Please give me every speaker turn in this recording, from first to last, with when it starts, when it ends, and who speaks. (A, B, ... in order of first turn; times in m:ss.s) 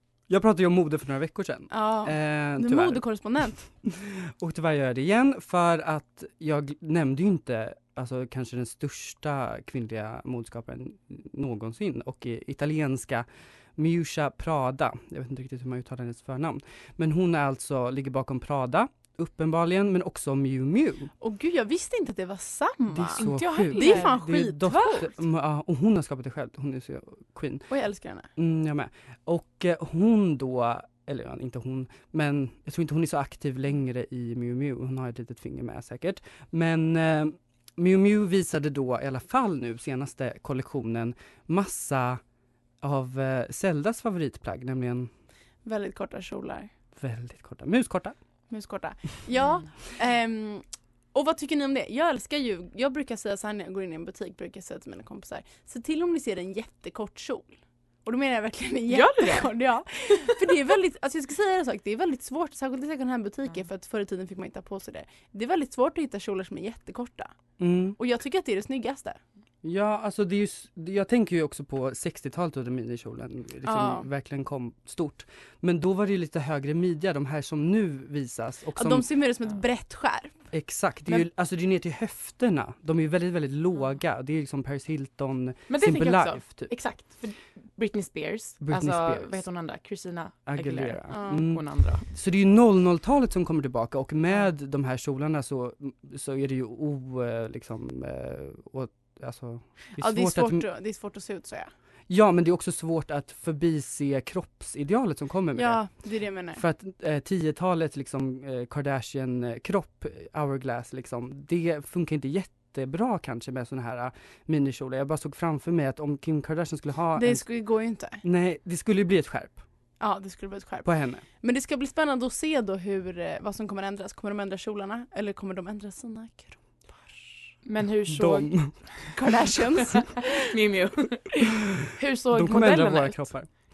0:00.3-0:03.0 A
0:01.7-0:03.6 B
0:03.8-0:13.3 A
0:13.8-0:21.1 A
0:21.2-0:25.1 B
0:22.9-0:27.7 A
0:23.2-0:24.2 C
0:27.7-0:28.3 B
0:28.4-0:42.2 A
0:42.8-0:45.1 A
0:45.6-0:46.7 B
0:47.0-0:48.2 A
0:48.5-1:07.3 B
0:58.9-0:59.5 C
1:07.6-1:08.0 A
1:08.0-1:09.2 B
1:09.6-1:19.1 A
1:13.6-1:14.1 B
1:18.8-1:20.4 B
1:20.5-1:26.7 A
1:25.7-1:32.0 C
1:28.6-1:29.4 A
1:30.5-1:40.6 A
1:31.1-1:31.4 B
1:40.0-1:41.7 B
1:42.1-1:45.8 A
1:45.6-1:46.6 B
1:46.5-1:57.4 A
1:57.2-1:58.2 B
1:58.2-1:59.6 A
2:00.0-2:07.2 B
2:00.8-2:01.2 A
2:07.6-2:09.0 C
2:08.1-2:08.9 A
2:09.1-2:10.3 B
2:09.9-2:13.4 C
2:12.3-2:13.5 A